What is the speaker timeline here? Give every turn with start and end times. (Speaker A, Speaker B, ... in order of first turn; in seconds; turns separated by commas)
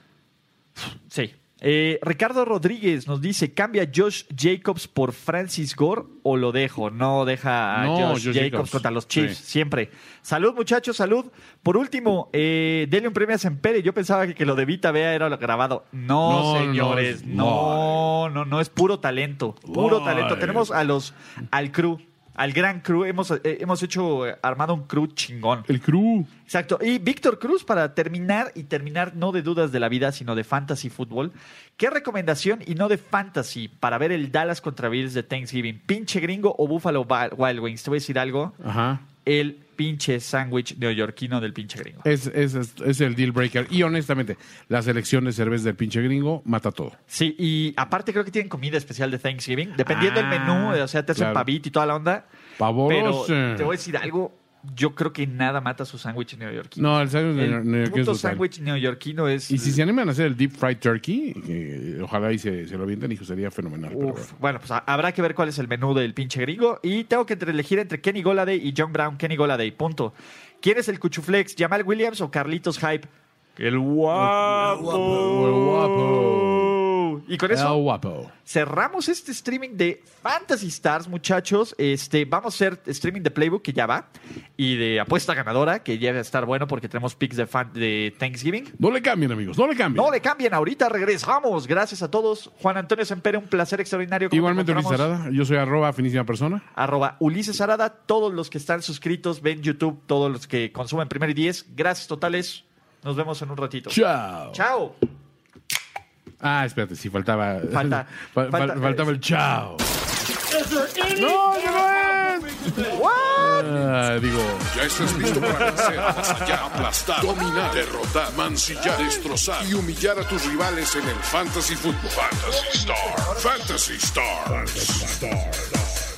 Speaker A: 0.8-25.7, Speaker B: 7.7-9.4, Speaker B: 16.2-18.1, Speaker B: 19.6-20.8, Speaker B: 25.7-26.3, Speaker A: 26.5-38.5, Speaker B: 38.6-39.0, Speaker A: 39.2-42.1, Speaker B: 42.0-47.0, Speaker A: 47.1-52.2, Speaker B: 49.8-51.5, Speaker B: 52.6-53.7, Speaker A: 52.9-59.8, Speaker B: 56.8-58.4, Speaker B: 59.5-64.3, Speaker A: 63.9-77.8, Speaker B: 74.1-76.8, Speaker B: 77.5-78.3, Speaker A: 78.5-88.7, Speaker B: 88.8-90.1, Speaker A: 89.9-95.1, Speaker B: 94.3-96.7, Speaker A: 96.7-104.0, Speaker B: 103.9-104.6, Speaker A: 104.5-105.0, Speaker B: 106.4-109.9, Speaker A: 107.7-109.1, Speaker B: 111.1-119.8, Speaker A: 112.8-113.9, Speaker C: 114.7-125.8, Speaker A: 115.4-116.5, Speaker B: 124.7-125.2